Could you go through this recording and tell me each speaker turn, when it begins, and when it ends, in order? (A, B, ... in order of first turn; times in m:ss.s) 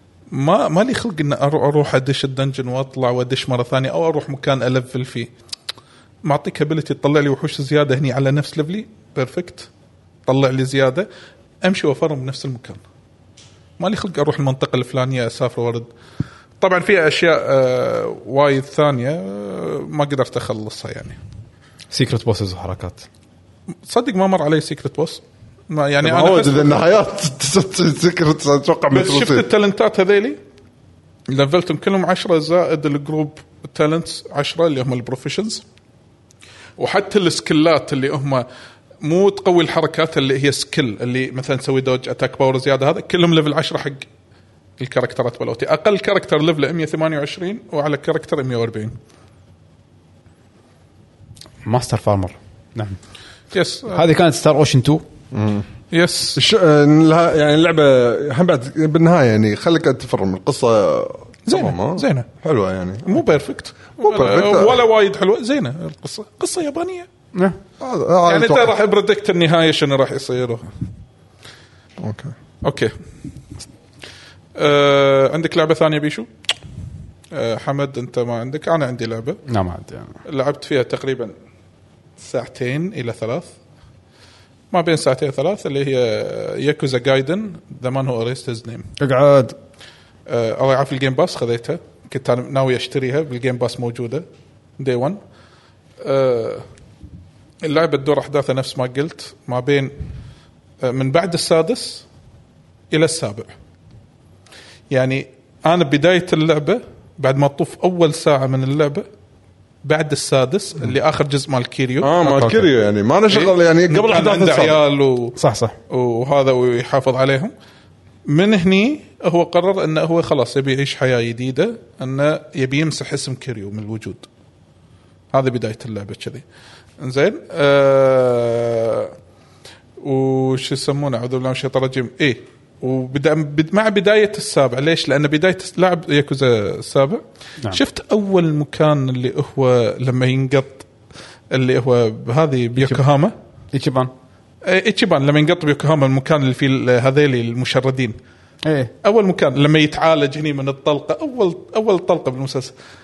0:00.3-0:05.3 A
0:06.2-0:09.7 A
0:10.3-0:11.1 A
0:11.6-0:12.8 A
0:13.8-0:15.9 A
0:16.6-0:21.2 A
0:21.9-0:23.0 B
0:23.8-0:26.8 A
0:26.0-0:29.4 C
0:28.9-0:30.4 A
0:31.3-0:35.6 A
0:36.8-0:38.4 A
0:39.0-0:44.0 A
0:44.8-0:48.9 A
0:51.6-0:53.0 B
0:53.5-0:54.0 A
0:53.9-0:55.0 B
0:55.3-0:55.6 C
0:55.9-0:56.4 A
0:56.4-1:03.2 C
1:01.5-1:02.3 A
1:03.0-1:07.1 A
1:04.0-1:04.8 C
1:07.8-1:08.8 C
1:08.2-1:10.6 A
1:12.0-1:12.3 C
1:12.6-1:12.9 A
1:14.6-1:16.3 A
1:17.3-1:19.4 A
1:19.5-1:20.1 B
1:20.2-1:21.3 A
1:22.2-1:23.5 A
1:24.7-1:28.9 A
1:29.0-1:29.6 B
1:30.3-1:34.2 A
1:34.8-1:35.2 A
1:36.0-1:36.6 A
1:37.6-1:39.9 A
1:40.8-1:42.0 A
1:42.9-1:43.5 A
1:44.9-1:49.0 A
1:49.8-1:52.5 A
1:52.0-1:54.8 C
1:53.3-1:55.4 A
1:55.4-1:55.7 B
1:55.9-1:57.5 A
1:58.3-2:04.2 A
2:05.3-2:06.4 A
2:07.0-2:09.1 A
2:10.0-2:20.8 A
2:21.5-2:23.3 A
2:23.7-2:24.1 B
2:24.6-2:28.2 A
2:28.6-2:28.9 B
2:29.0-2:32.7 A